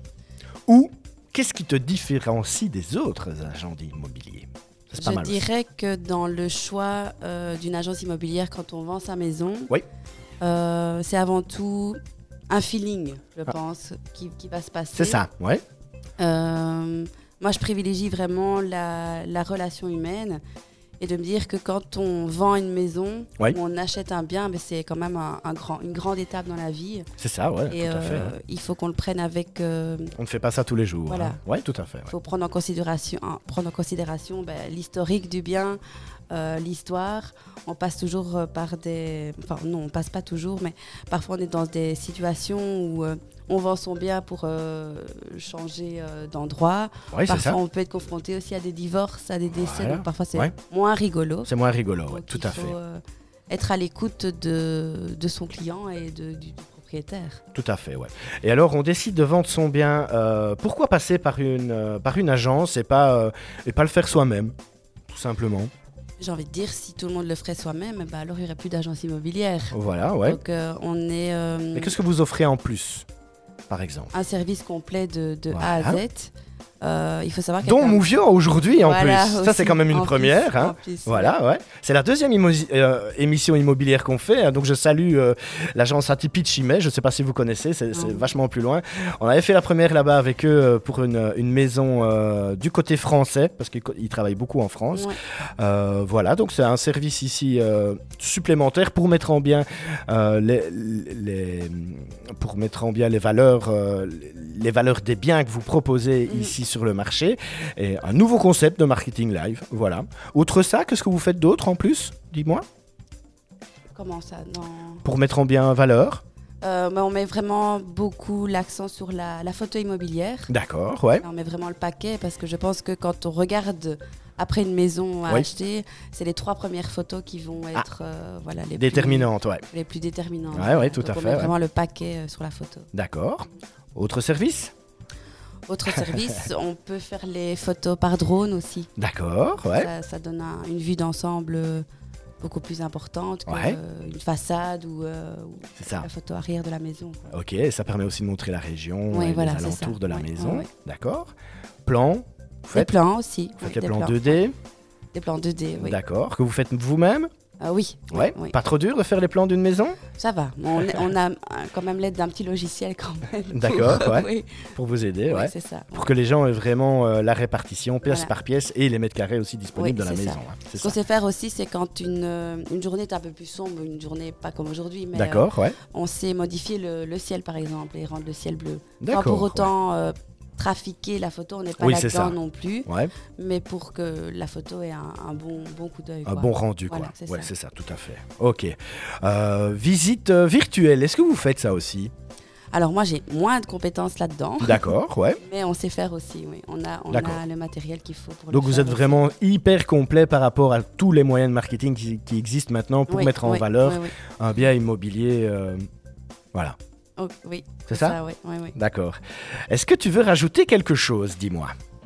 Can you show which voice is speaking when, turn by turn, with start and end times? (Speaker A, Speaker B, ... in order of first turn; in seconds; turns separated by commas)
Speaker A: 0.7-5.4, Speaker B: 4.9-9.7, Speaker B: 10.4-12.0, Speaker B: 12.5-15.2, Speaker A: 14.9-15.6, Speaker B: 16.2-20.4, Speaker B: 21.0-27.1, Speaker A: 27.2-28.3, Speaker B: 27.7-30.1, Speaker A: 30.1-32.1, Speaker B: 31.1-31.4, Speaker B: 32.1-35.8, Speaker B: 36.3-51.5, Speaker A: 47.1-47.6, Speaker A: 49.5-50.5, Speaker A: 51.5-52.8, Speaker B: 52.1-57.4, Speaker A: 57.5-64.5, Speaker A: 65.1-65.7, Speaker B: 66.2-72.0, Speaker A: 69.7-70.4, Speaker A: 71.7-73.1, Speaker A: 73.7-74.1, Speaker B: 74.1-78.0, Speaker A: 75.5-76.0, Speaker A: 77.6-112.6, Speaker B: 78.7-81.4, Speaker B: 87.9-88.3, Speaker B: 106.3-106.5, Speaker B: 113.9-115.0, Speaker A: 115.0-116.2, Speaker B: 116.6-120.5, Speaker A: 120.5-121.2, Speaker B: 121.2-132.9, Speaker A: 128.8-129.6, Speaker A: 130.5-131.5, Speaker A: 132.9-134.7, Speaker B: 135.7-138.9, Speaker A: 139.0-139.9, Speaker B: 139.7-141.8, Speaker B: 142.4-147.3, Speaker A: 143.5-143.8, Speaker A: 145.8-146.1, Speaker A: 147.3-151.3, Speaker B: 149.1-150.7, Speaker A: 151.8-152.9, Speaker B: 152.7-154.4, Speaker A: 153.6-154.5, Speaker B: 155.1-156.0, Speaker A: 155.8-157.3, Speaker B: 157.6-158.5, Speaker A: 158.1-160.0, Speaker B: 160.1-164.7, Speaker A: 163.5-170.9, Speaker B: 165.3-166.1, Speaker B: 168.0-168.3, Speaker B: 169.7-187.5, Speaker A: 175.1-175.8, Speaker A: 179.0-179.7, Speaker A: 181.8-183.1, Speaker A: 186.2-192.1, Speaker B: 192.7-199.2, Speaker A: 194.6-195.4, Speaker A: 197.1-197.4, Speaker A: 198.5-205.9, Speaker B: 203.1-204.1, Speaker B: 207.2-208.8, Speaker A: 207.9-208.2, Speaker A: 208.8-211.7